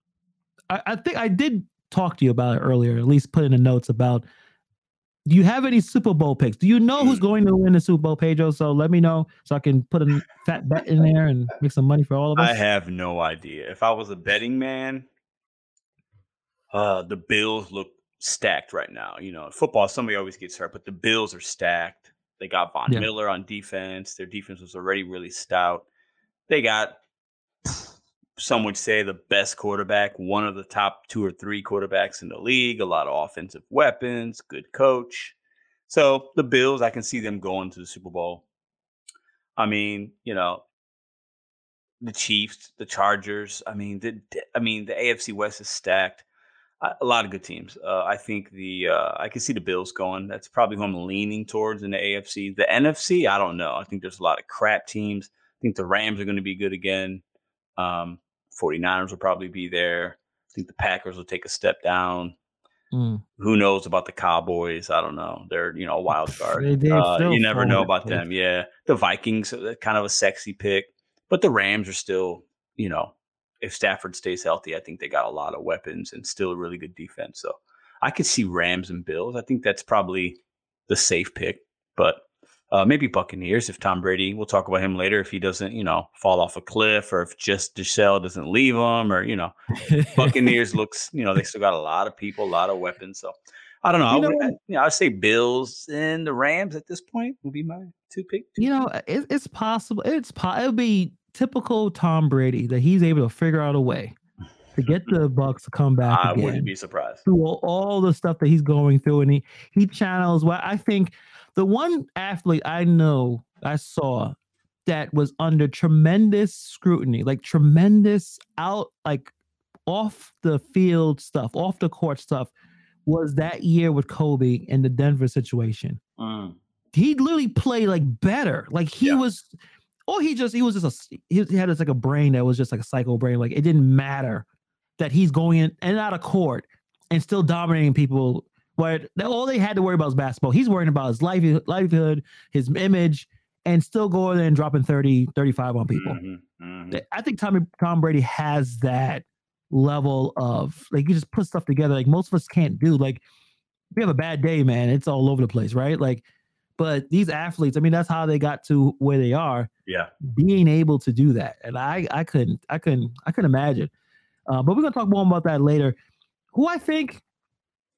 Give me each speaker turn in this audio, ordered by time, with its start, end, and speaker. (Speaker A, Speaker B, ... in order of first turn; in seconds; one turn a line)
Speaker A: 0.7-4.2
Speaker A: 5.3-12.6
Speaker B: 7.0-7.2
Speaker B: 12.3-15.1
Speaker B: 16.7-25.9
Speaker B: 26.5-27.0
Speaker B: 27.6-35.3
Speaker B: 35.9-38.4
Speaker B: 39.6-40.6
Speaker B: 42.0-46.2
Speaker B: 46.8-57.2
Speaker B: 57.8-62.3
Speaker A: 62.9-63.2
Speaker B: 63.4-89.5
Speaker A: 66.1-68.2
Speaker A: 89.9-90.6
Speaker B: 90.1-98.7
Speaker A: 94.1-94.5
Speaker A: 98.6-104.1
Speaker A: 104.7-106.7
Speaker B: 106.0-107.2
Speaker A: 107.2-114.3
Speaker A: 114.8-119.3
Speaker A: 119.9-122.5
Speaker A: 123.0-126.0
Speaker B: 126.2-126.5
Speaker A: 126.9-129.5
Speaker A: 130.1-134.4
Speaker A: 135.0-146.2
Speaker B: 145.9-147.0
Speaker A: 146.9-153.2
Speaker A: 153.9-156.2
Speaker A: 156.8-159.7
Speaker A: 160.2-163.9
Speaker A: 164.5-165.9
Speaker A: 166.5-167.2